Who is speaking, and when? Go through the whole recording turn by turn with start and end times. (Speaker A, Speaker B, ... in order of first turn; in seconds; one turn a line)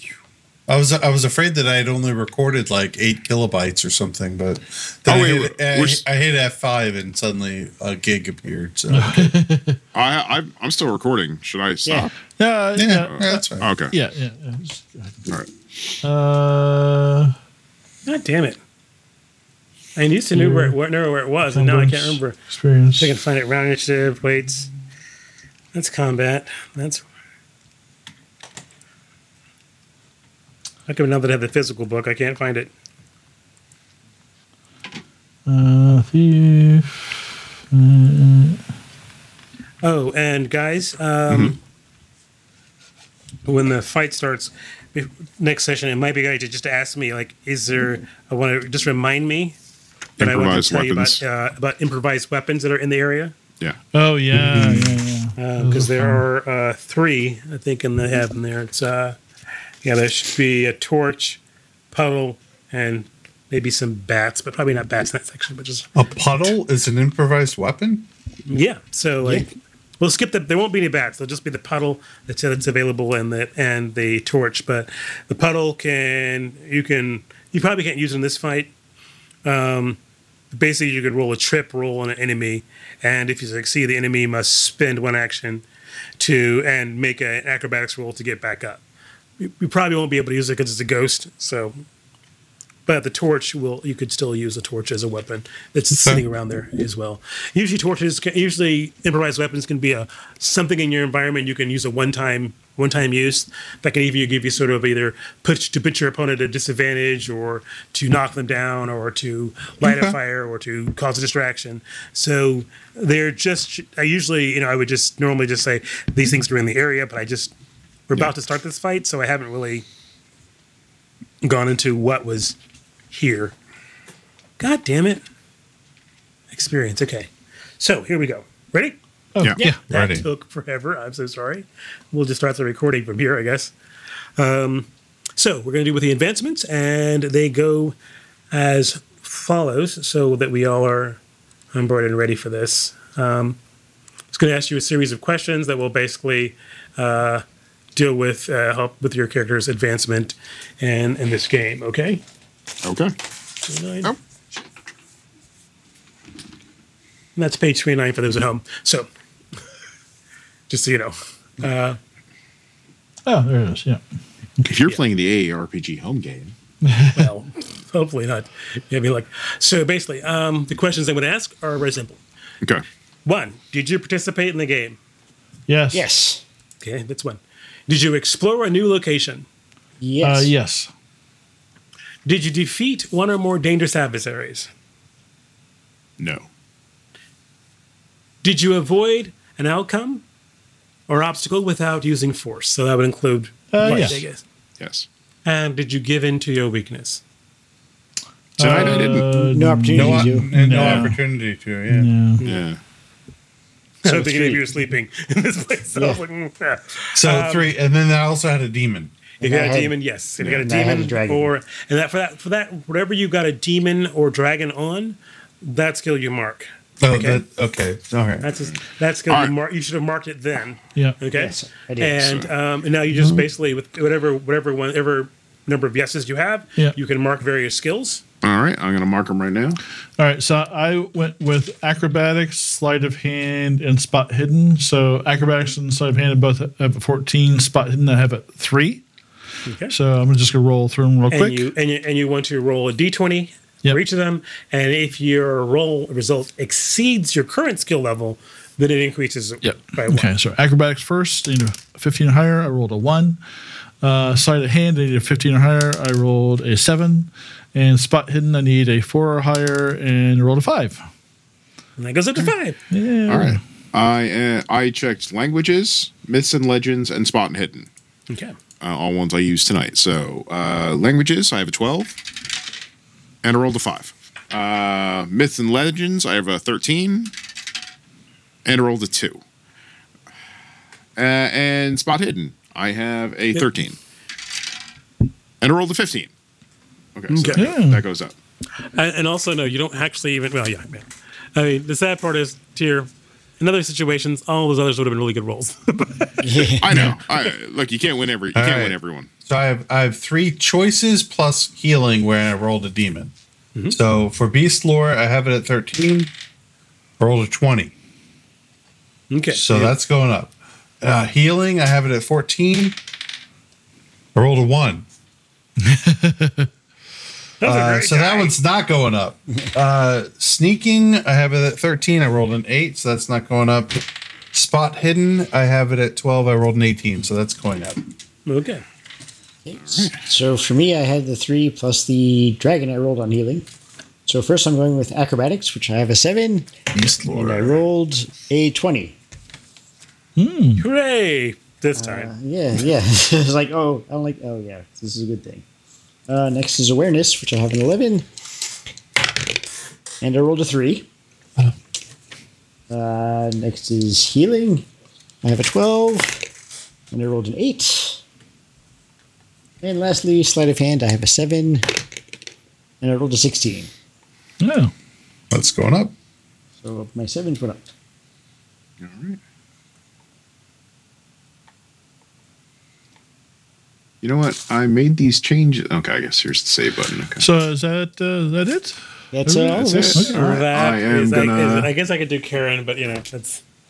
Speaker A: 0.7-9.4
Speaker B: 5.1-6.0
Speaker C: 8.9-9.8
Speaker B: 9.9-12.1
Speaker D: 11.8-12.1
Speaker C: 12.4-15.3
Speaker A: 12.7-13.7
Speaker B: 13.1-13.9
Speaker C: 16.0-17.3
Speaker E: 18.1-18.6
Speaker E: 20.0-22.4
Speaker C: 20.3-20.8
Speaker C: 21.5-23.1
Speaker E: 23.0-24.7
Speaker E: 25.7-27.1
Speaker E: 30.9-32.7
Speaker C: 35.5-38.6
Speaker E: 39.8-41.6
Speaker B: 41.3-41.5
Speaker E: 43.5-49.5
Speaker B: 50.2-51.2
Speaker E: 50.2-53.3
Speaker C: 53.9-56.2
Speaker A: 54.3-55.0
Speaker E: 55.4-59.2
Speaker E: 59.8-65.9
Speaker A: 65.9-68.1
Speaker E: 68.5-78.7
Speaker D: 69.2-69.5
Speaker E: 79.4-80.0
Speaker E: 80.5-85.6
Speaker E: 86.2-88.8
Speaker E: 89.4-91.8
Speaker E: 92.8-117.5
Speaker A: 96.0-96.2
Speaker A: 109.8-110.2
Speaker E: 118.1-119.8
Speaker E: 121.4-122.6
Speaker E: 123.1-123.5
Speaker E: 124.6-125.2
Speaker E: 126.5-129.0
Speaker C: 129.3-129.8
Speaker A: 129.9-130.2
Speaker E: 129.9-133.7
Speaker E: 134.4-137.9
Speaker E: 138.5-141.2
Speaker E: 141.7-143.6
Speaker E: 144.3-147.4
Speaker E: 147.9-152.2
Speaker B: 152.8-153.1
Speaker E: 153.7-154.1
Speaker E: 157.3-159.1
Speaker E: 160.7-162.0
Speaker C: 163.3-164.0
Speaker B: 164.6-166.6
Speaker C: 166.8-167.3
Speaker E: 167.1-172.2
Speaker E: 173.2-175.0
Speaker C: 175.7-176.1
Speaker D: 175.9-176.4
Speaker E: 176.8-179.4
Speaker D: 180.0-180.5
Speaker C: 180.2-180.9
Speaker E: 182.3-184.7
Speaker B: 186.2-186.5
Speaker E: 188.4-190.2
Speaker E: 191.1-194.4
Speaker C: 193.7-194.2
Speaker B: 194.8-195.1
Speaker E: 195.4-197.2
Speaker B: 198.6-199.3
Speaker C: 198.6-201.2
Speaker D: 198.8-201.0
Speaker A: 199.9-202.1
Speaker C: 201.9-202.4
Speaker E: 202.4-202.6
Speaker B: 202.4-202.8
Speaker E: 204.0-207.7
Speaker D: 204.1-204.7
Speaker D: 205.9-206.2
Speaker A: 207.1-209.1
Speaker D: 209.4-211.5
Speaker E: 209.4-217.4
Speaker A: 217.0-218.4
Speaker E: 218.4-228.2
Speaker D: 221.3-222.5
Speaker A: 223.1-223.4
Speaker B: 228.4-229.8
Speaker C: 230.2-239.0
Speaker E: 239.7-239.9
Speaker C: 239.9-241.7
Speaker E: 241.3-250.3
Speaker C: 249.6-253.4
Speaker C: 254.0-261.0
Speaker E: 262.0-262.8
Speaker C: 262.9-263.6
Speaker B: 263.3-267.9
Speaker E: 268.3-268.6
Speaker B: 268.8-272.2
Speaker B: 273.4-277.3
Speaker B: 278.6-279.4
Speaker B: 281.1-284.0
Speaker B: 285.6-286.3
Speaker B: 287.1-288.3
Speaker E: 287.3-287.7
Speaker C: 287.6-288.1
Speaker E: 288.9-296.4
Speaker D: 296.4-297.0
Speaker B: 296.8-299.3
Speaker A: 298.6-303.3
Speaker A: 303.9-306.3
Speaker A: 307.2-307.9
Speaker E: 309.3-309.9
Speaker A: 309.5-313.0
Speaker A: 314.3-315.1
Speaker C: 315.8-316.7
Speaker E: 317.6-318.6
Speaker A: 317.6-328.0
Speaker E: 328.4-328.8
Speaker D: 329.6-333.6
Speaker B: 329.8-330.2
Speaker D: 334.3-336.7
Speaker A: 336.9-337.8
Speaker D: 337.2-339.2
Speaker C: 340.4-340.8
Speaker E: 340.8-342.3
Speaker D: 341.9-345.6
Speaker D: 346.3-348.3
Speaker D: 350.2-351.1
Speaker D: 352.9-354.9
Speaker D: 355.4-356.5
Speaker D: 357.1-358.2
Speaker D: 359.8-361.9
Speaker D: 363.0-363.9
Speaker C: 364.6-364.9
Speaker A: 365.5-366.1
Speaker D: 366.8-367.9
Speaker B: 369.0-369.4
Speaker B: 374.2-377.4
Speaker C: 377.4-380.4
Speaker D: 379.3-380.3
Speaker B: 379.8-381.9
Speaker E: 380.3-383.6